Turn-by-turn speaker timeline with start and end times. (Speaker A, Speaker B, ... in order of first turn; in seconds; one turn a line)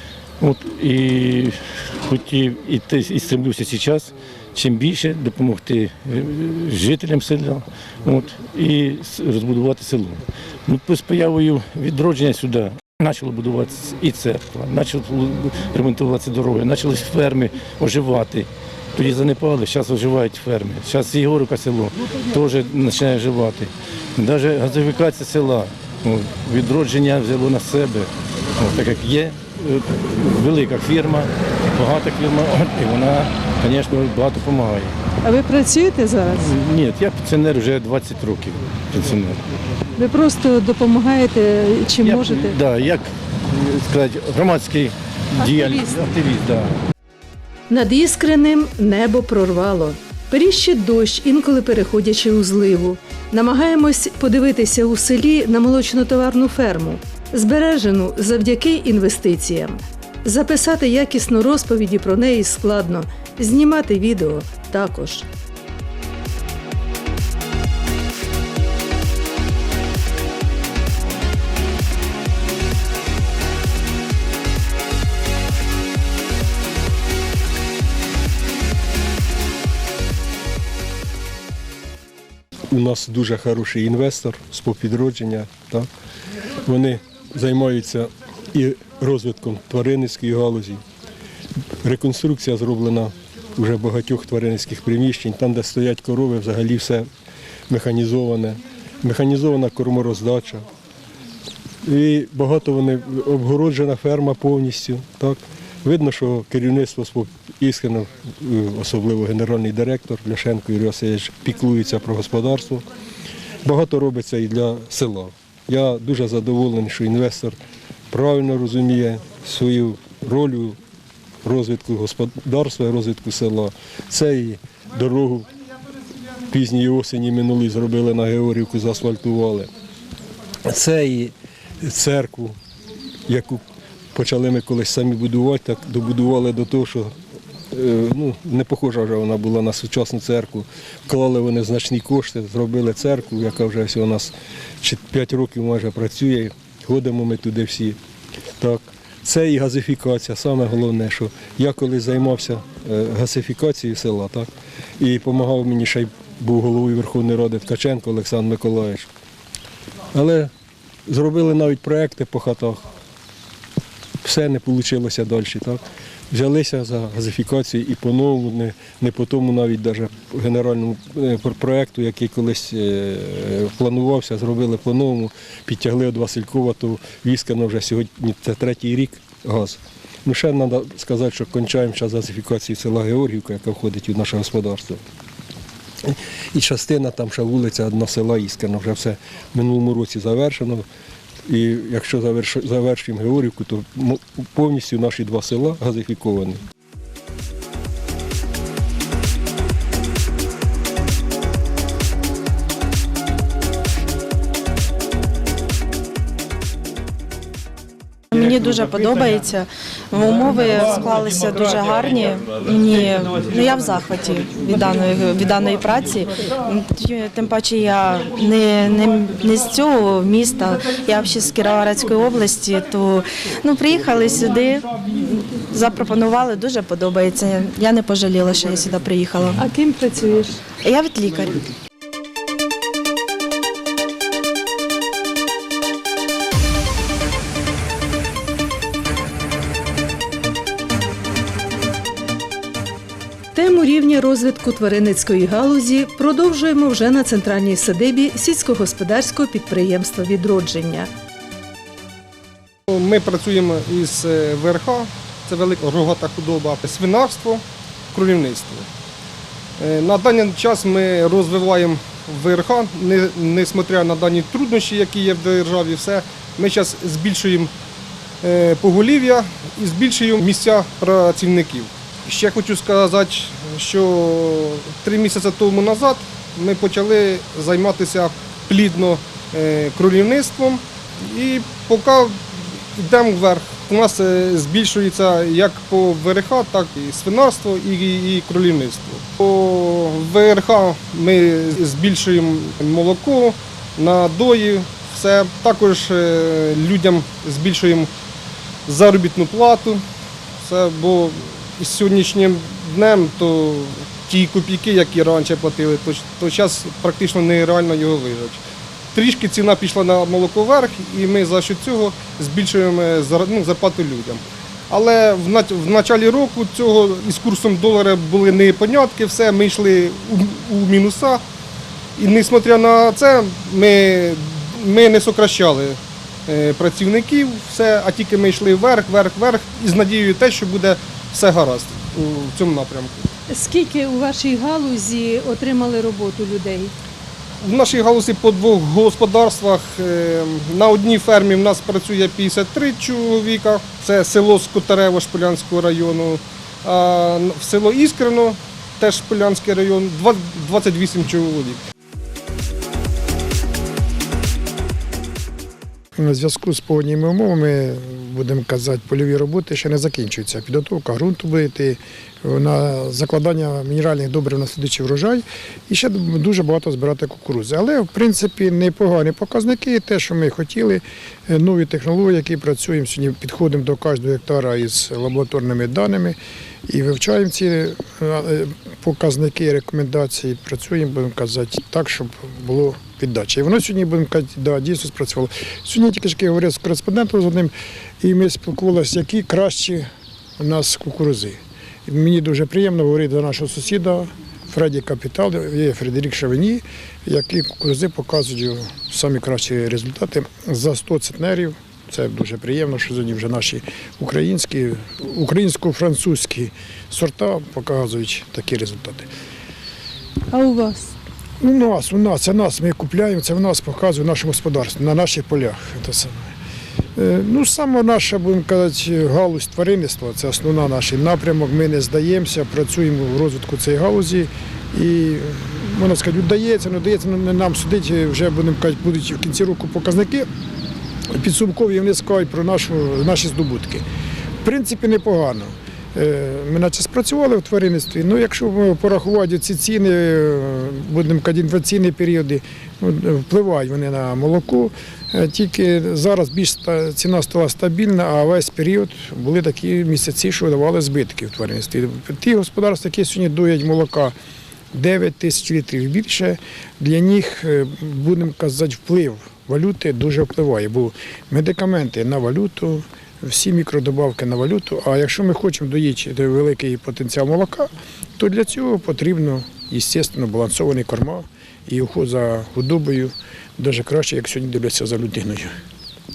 Speaker A: 0.4-35.0
Speaker B: 35.2-36.5
Speaker A: 36.3-39.4
Speaker B: 40.0-42.6
Speaker A: 42.0-46.8
Speaker B: 45.4-46.1
Speaker B: 47.7-65.3
Speaker C: 82.7-85.9
Speaker C: 86.7-90.8
Speaker C: 91.8-97.1
Speaker C: 97.7-100.6
Speaker C: 101.9-112.8
Speaker C: 113.6-117.6
Speaker C: 118.1-120.8
Speaker C: 121.5-125.5
Speaker C: 126.5-129.7
Speaker C: 130.7-132.6
Speaker C: 133.3-133.6
Speaker C: 134.1-137.1
Speaker C: 137.7-148.0
Speaker C: 148.6-159.1
Speaker C: 160.1-160.5
Speaker C: 161.1-162.8
Speaker C: 164.2-185.0
Speaker C: 186.0-190.8
Speaker C: 191.5-196.6
Speaker D: 208.3-229.6
Speaker B: 229.6-230.6
Speaker D: 230.8-231.7
Speaker B: 243.5-251.1
Speaker E: 252.9-257.6
Speaker E: 258.1-258.9
Speaker E: 259.8-267.7
Speaker E: 268.4-298.1
Speaker E: 298.9-300.0
Speaker E: 300.6-308.6
Speaker E: 309.1-321.4
Speaker E: 322.2-333.3
Speaker B: 333.5-336.9
Speaker E: 337.6-351.8
Speaker F: 356.2-390.1
Speaker F: 390.6-409.3
Speaker B: 410.5-411.1
Speaker F: 411.6-416.5
Speaker F: 417.2-430.5
Speaker F: 431.3-434.1
Speaker F: 434.6-454.3
Speaker F: 454.9-475.7